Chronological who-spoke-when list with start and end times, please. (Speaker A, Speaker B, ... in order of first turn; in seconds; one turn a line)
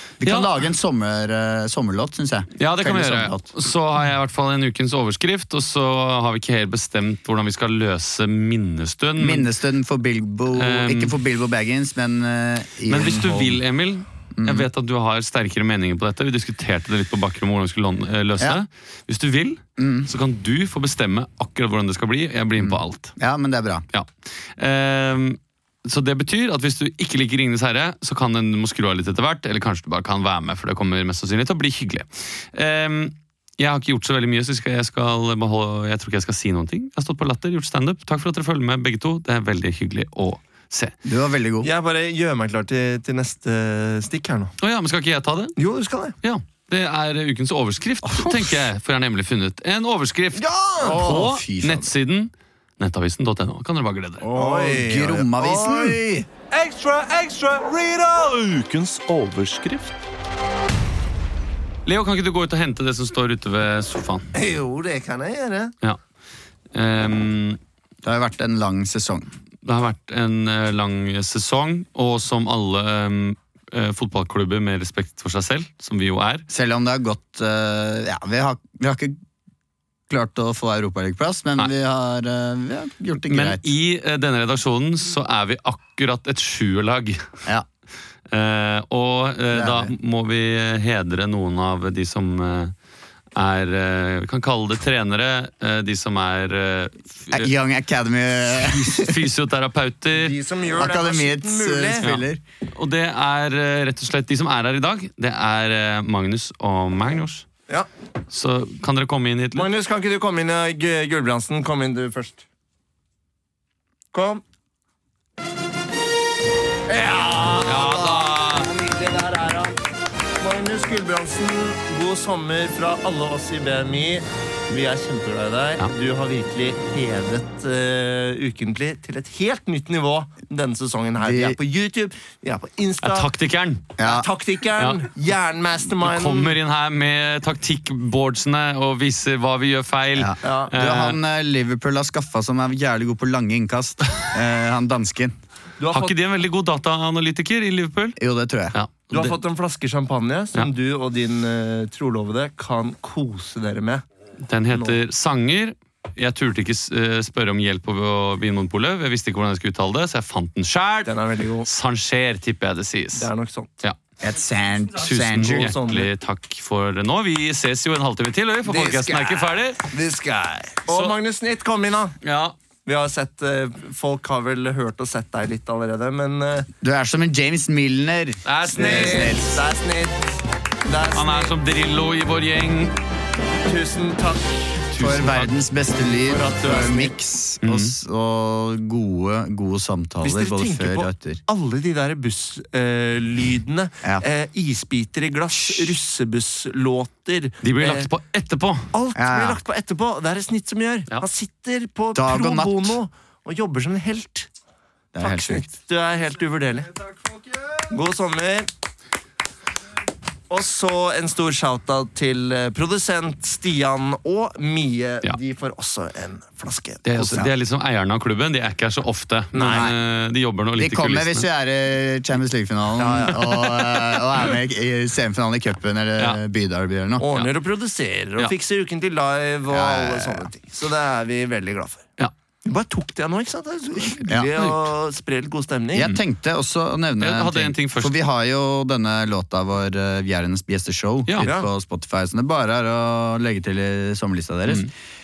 Speaker A: 0.2-3.5
Speaker B: 0.2-0.5
Speaker B: 2.6-9.5
Speaker A: 9.2-13.6
Speaker B: 10.5-11.2
Speaker B: 12.9-23.1
Speaker A: 14.4-14.7
Speaker A: 19.8-20.1
Speaker A: 22.6-23.9
Speaker B: 23.9-41.0
Speaker A: 41.0-41.7
Speaker C: 41.6-44.5
Speaker B: 44.6-45.6
Speaker C: 45.6-46.2
Speaker B: 46.2-54.3
Speaker A: 48.0-48.6
Speaker C: 50.4-51.2
Speaker A: 50.8-51.9
Speaker A: 54.3-56.0
Speaker C: 54.3-56.3
Speaker D: 57.2-60.0
Speaker B: 61.9-64.3
Speaker C: 64.3-65.7
Speaker B: 66.7-67.6
Speaker A: 68.0-69.3
Speaker B: 69.6-76.5
Speaker A: 76.5-79.2
Speaker A: 80.1-83.7
Speaker B: 83.3-87.3
Speaker B: 88.3-92.8
Speaker A: 89.5-89.9
Speaker B: 93.4-97.5
Speaker A: 97.3-99.3
Speaker B: 98.6-100.4
Speaker C: 100.1-102.1
Speaker A: 100.7-102.4
Speaker B: 102.0-107.5
Speaker B: 108.3-109.7
Speaker C: 109.5-112.4
Speaker C: 114.1-114.4
Speaker C: 116.9-119.8
Speaker B: 117.6-118.7
Speaker C: 120.4-133.3
Speaker A: 131.2-131.6
Speaker B: 133.0-133.9
Speaker A: 134.0-134.3
Speaker C: 134.0-136.6
Speaker B: 134.8-135.1
Speaker B: 136.0-141.2
Speaker A: 140.2-145.3
Speaker C: 140.4-140.7
Speaker C: 145.8-146.2
Speaker B: 145.9-148.2
Speaker A: 148.2-148.8
Speaker B: 148.7-149.4
Speaker C: 149.1-154.0
Speaker B: 154.5-163.3
Speaker C: 154.7-155.0
Speaker C: 161.1-161.7
Speaker C: 163.2-163.7
Speaker A: 164.2-165.7
Speaker B: 165.0-169.8
Speaker C: 165.5-166.1
Speaker C: 168.7-172.2
Speaker B: 170.9-171.2
Speaker B: 172.2-172.6
Speaker C: 172.8-176.7
Speaker A: 176.8-179.6
Speaker B: 178.5-179.4
Speaker C: 178.7-181.6
Speaker B: 181.1-182.9
Speaker C: 183.7-184.8
Speaker B: 184.9-185.6
Speaker A: 185.0-191.4
Speaker B: 186.3-187.1
Speaker C: 186.7-187.0
Speaker B: 187.6-187.9
Speaker C: 190.2-198.1
Speaker A: 195.5-195.9
Speaker B: 197.6-198.9
Speaker C: 198.9-204.5
Speaker A: 199.2-199.6
Speaker A: 202.2-203.0
Speaker A: 205.1-205.7
Speaker C: 205.2-206.9
Speaker C: 207.9-208.7
Speaker C: 210.5-217.5
Speaker B: 217.1-221.5
Speaker C: 219.5-219.9
Speaker A: 219.7-220.0
Speaker A: 220.8-227.3
Speaker C: 223.0-223.5
Speaker C: 227.2-232.1
Speaker A: 229.7-230.5
Speaker C: 232.7-236.2
Speaker B: 234.6-234.9
Speaker A: 235.9-244.9
Speaker B: 237.2-238.2
Speaker C: 241.4-241.7